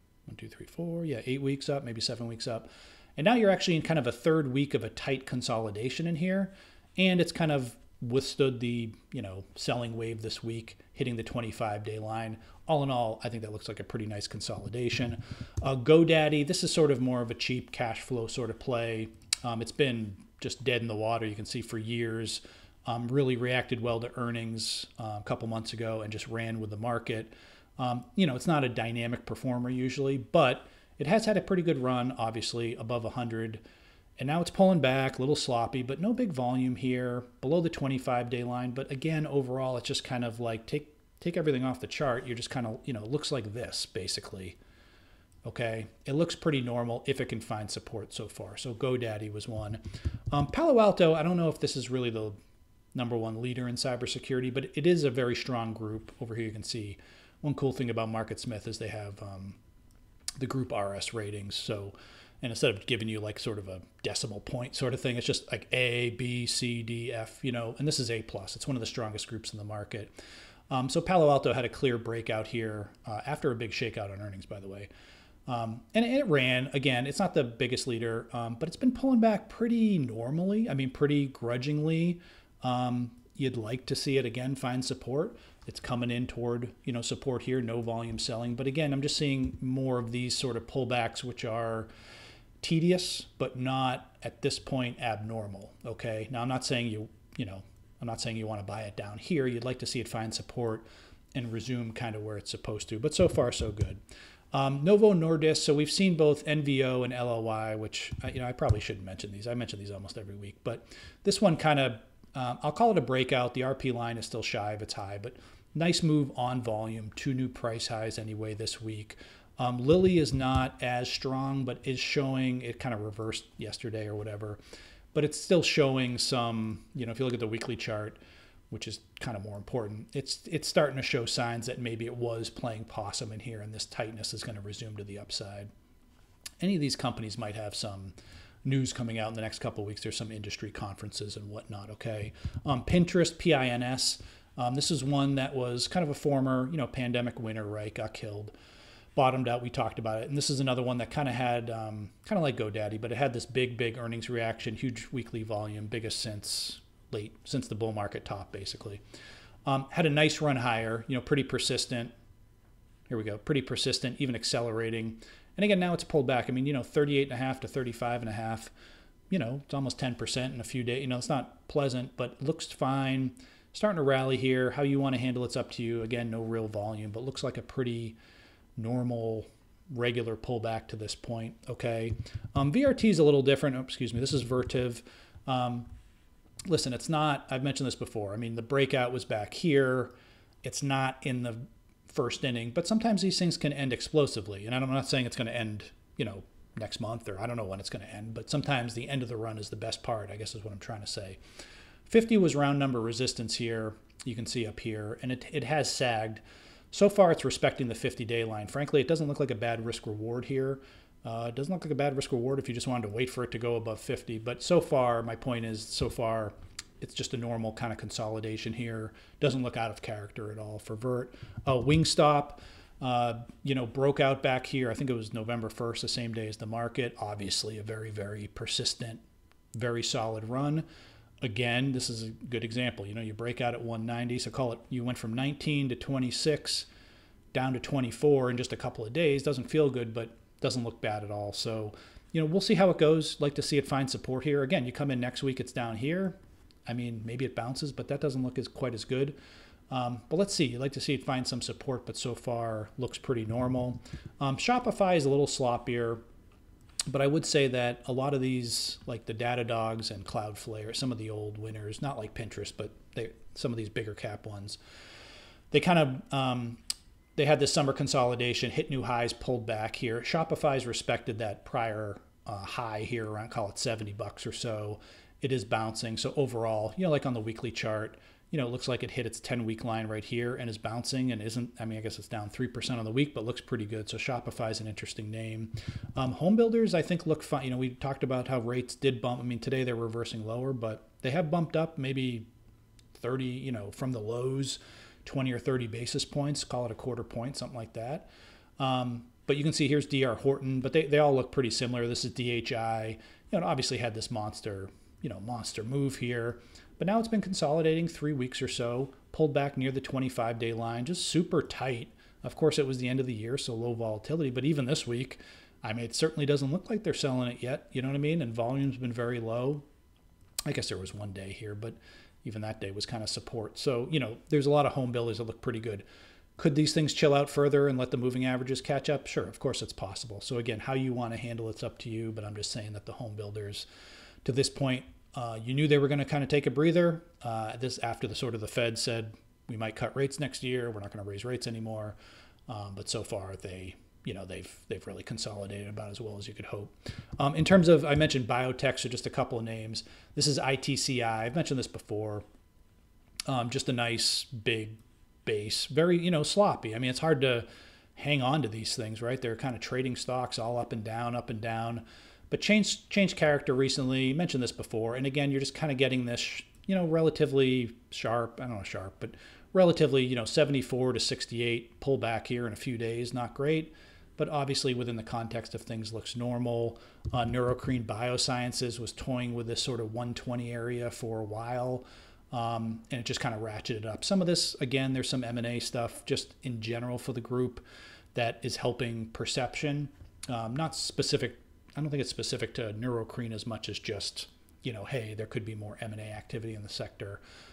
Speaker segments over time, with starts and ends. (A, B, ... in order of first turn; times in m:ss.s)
0:00.3-0:33.6 A
0:34.2-0:44.6 A
0:45.4-0:52.4 A
0:52.9-0:59.6 A
1:00.4-1:10.1 A
1:10.7-1:14.9 A
1:15.5-1:31.9 A
1:32.6-1:44.0 A
1:44.5-2:04.6 A
2:05.1-2:08.2 A
2:08.7-2:15.7 A
2:16.6-2:28.5 A
2:29.2-2:39.0 A
2:39.7-2:42.1 A
2:43.1-2:48.7 A
2:49.3-2:58.2 A
2:58.8-3:05.9 A
3:06.7-3:10.1 A
3:10.6-3:21.4 A
3:22.1-3:49.2 A
3:49.8-3:50.8 A
3:51.4-3:56.9 A
3:57.5-4:09.4 A
4:09.9-4:16.2 A
4:17.1-4:24.8 A
4:25.7-4:26.8 A
4:27.4-4:52.5 A
4:53.1-4:58.3 A
4:58.8-5:19.8 A
5:20.7-5:26.0 A
5:26.6-5:33.9 A
5:34.4-5:42.2 A
5:42.7-5:52.4 A
5:53.5-6:27.8 A
6:28.4-6:37.4 A